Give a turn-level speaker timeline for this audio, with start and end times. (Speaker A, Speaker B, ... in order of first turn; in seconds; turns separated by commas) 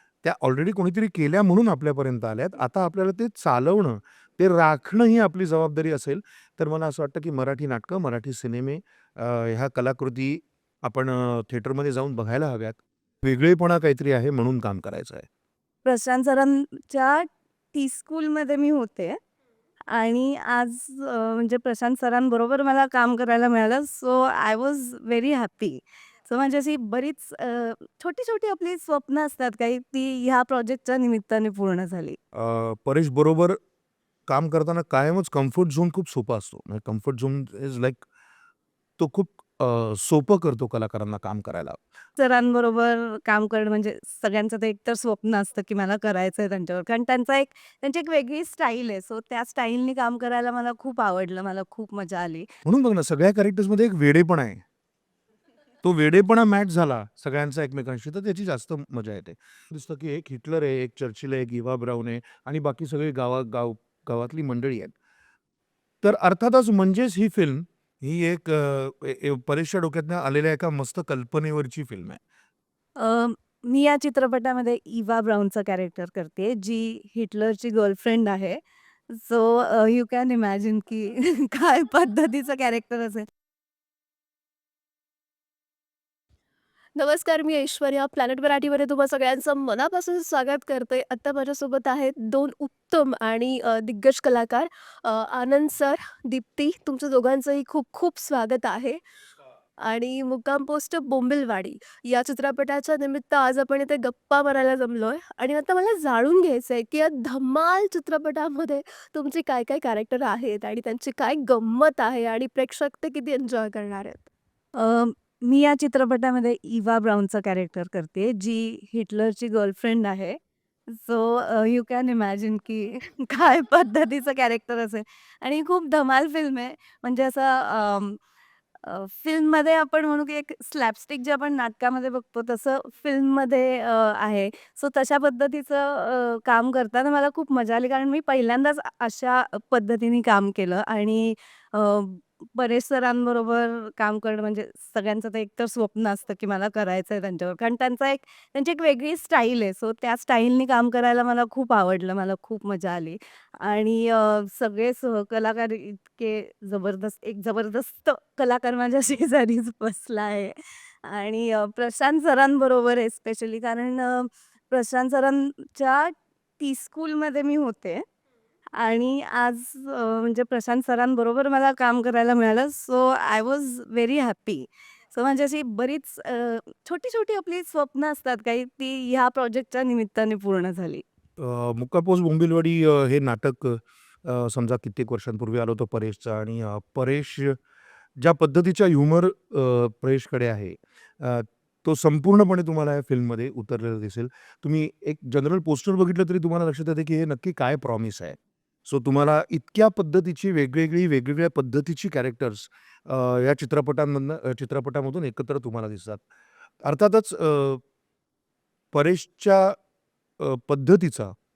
Speaker A: 0.2-15.3, Speaker B: 15.8-19.2, Speaker B: 19.9-32.2, Speaker A: 32.3-33.6, Speaker A: 34.3-38.1, Speaker A: 39.0-41.8, Speaker B: 42.2-52.5, Speaker A: 52.6-54.6, Speaker A: 55.8-64.9, Speaker A: 66.0-72.2, Speaker B: 73.0-83.3, Speaker C: 87.0-99.0, Speaker C: 99.8-114.3, Speaker B: 114.8-120.4, Speaker B: 120.9-128.2, Speaker B: 128.8-168.0, Speaker B: 168.8-181.0, Speaker A: 181.4-187.6, Speaker A: 188.2-206.2, Speaker A: 206.8-207.8, Speaker A: 208.9-209.8, Speaker A: 210.4-211.3